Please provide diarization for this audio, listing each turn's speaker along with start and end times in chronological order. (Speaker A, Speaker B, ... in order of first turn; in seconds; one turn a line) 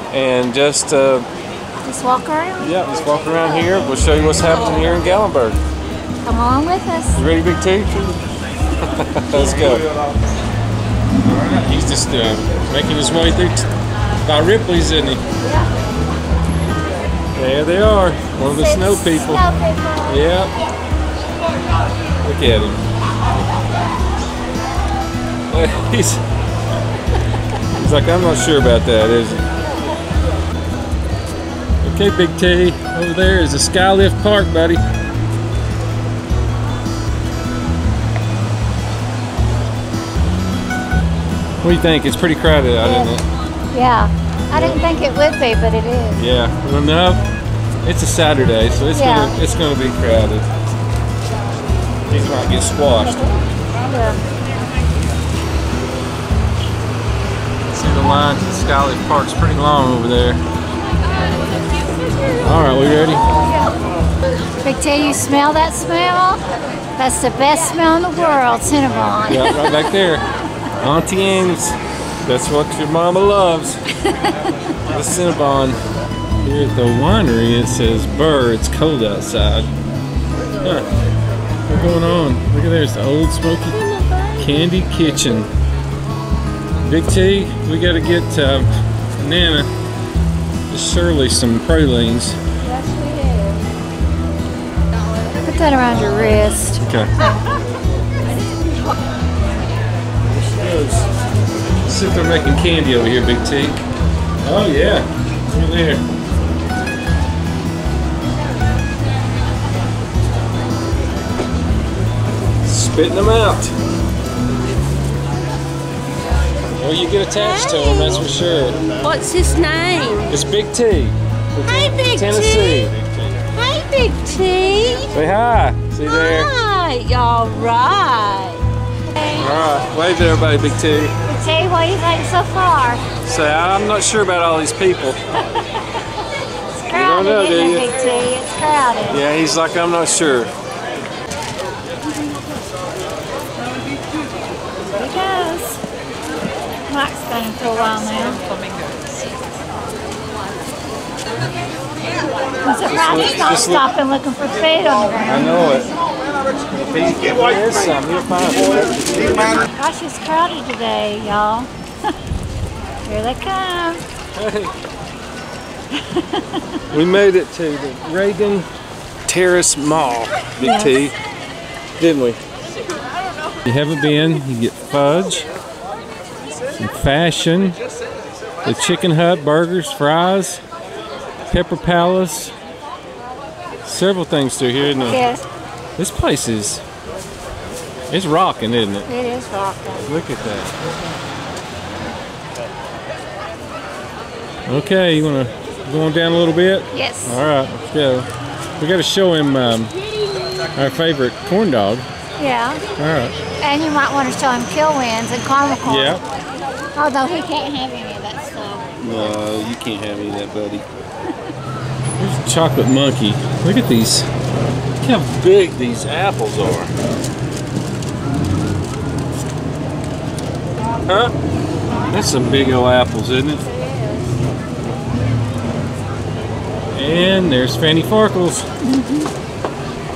Speaker A: 0.1-1.3
Speaker B: 1.8-2.9
Speaker A: 2.6-5.6
Speaker B: 6.2-7.2
Speaker A: 7.2-8.2
Speaker A: 8.8-9.9
Speaker A: 11.2-13.7
Speaker A: 14.2-15.2
Speaker A: 17.4-19.4
Speaker B: 18.4-20.2
Speaker A: 20.1-20.5
Speaker A: 22.2-22.8
Speaker A: 25.5-26.2
Speaker A: 27.7-29.5
Speaker A: 31.8-34.8
Speaker A: 41.6-43.3
Speaker B: 42.8-43.2
Speaker B: 43.7-46.3
Speaker A: 44.5-44.8
Speaker A: 46.2-47.2
Speaker A: 47.8-50.5
Speaker B: 48.9-49.4
Speaker A: 52.1-53.3
Speaker B: 53.9-54.2
Speaker A: 57.6-60.4
Speaker A: 62.4-63.2
Speaker B: 64.6-66.4
Speaker B: 67.0-69.9
Speaker A: 69.3-70.2
Speaker A: 70.8-73.8
Speaker B: 74.1-74.4
Speaker A: 74.9-75.8
Speaker A: 76.4-79.7
Speaker A: 80.6-80.9
Speaker A: 81.7-83.8
Speaker A: 84.4-85.5
Speaker A: 86.8-89.7
Speaker A: 90.7-92.4
Speaker B: 92.6-93.6
Speaker B: 95.4-96.8
Speaker A: 96.8-97.1
Speaker A: 100.3-101.1
Speaker A: 101.8-103.9
Speaker A: 104.4-106.0
Speaker A: 112.6-113.7
Speaker A: 116.8-118.8
Speaker C: 119.0-120.3
Speaker A: 120.3-123.4
Speaker C: 121.8-122.8
Speaker C: 123.8-125.1
Speaker A: 125.1-126.5
Speaker C: 126.2-128.4
Speaker A: 129.3-131.1
Speaker B: 131.3-133.0
Speaker A: 133.2-135.2
Speaker B: 136.8-139.2
Speaker A: 136.9-137.9
Speaker A: 139.1-140.5
Speaker B: 144.9-145.8
Speaker B: 146.9-148.4
Speaker B: 152.6-155.6
Speaker A: 152.9-153.8
Speaker A: 155.3-155.9
Speaker A: 156.8-159.6
Speaker B: 159.6-161.7
Speaker B: 163.1-164.0
Speaker A: 164.3-164.7
Speaker B: 165.9-166.8
Speaker A: 166.9-168.7
Speaker A: 169.3-171.2
Speaker B: 170.6-171.1
Speaker A: 172.0-172.4
Speaker A: 173.7-175.5
Speaker A: 176.7-177.8
Speaker A: 178.7-180.6
Speaker A: 181.5-182.5
Speaker A: 183.8-185.2
Speaker B: 185.0-185.4
Speaker A: 186.0-186.8
Speaker A: 188.1-189.1
Speaker B: 189.1-190.1
Speaker A: 190.0-190.8
Speaker A: 194.7-198.3
Speaker B: 196.9-197.4
Speaker A: 198.8-199.9
Speaker A: 200.7-202.1
Speaker B: 202.4-202.8
Speaker A: 203.0-203.4
Speaker B: 203.6-206.2
Speaker A: 205.8-206.2
Speaker B: 206.9-208.9
Speaker A: 209.0-210.9
Speaker A: 212.2-214.3
Speaker A: 215.0-216.9
Speaker A: 221.1-221.3
Speaker A: 222.1-223.7
Speaker A: 226.9-228.7
Speaker B: 228.8-229.3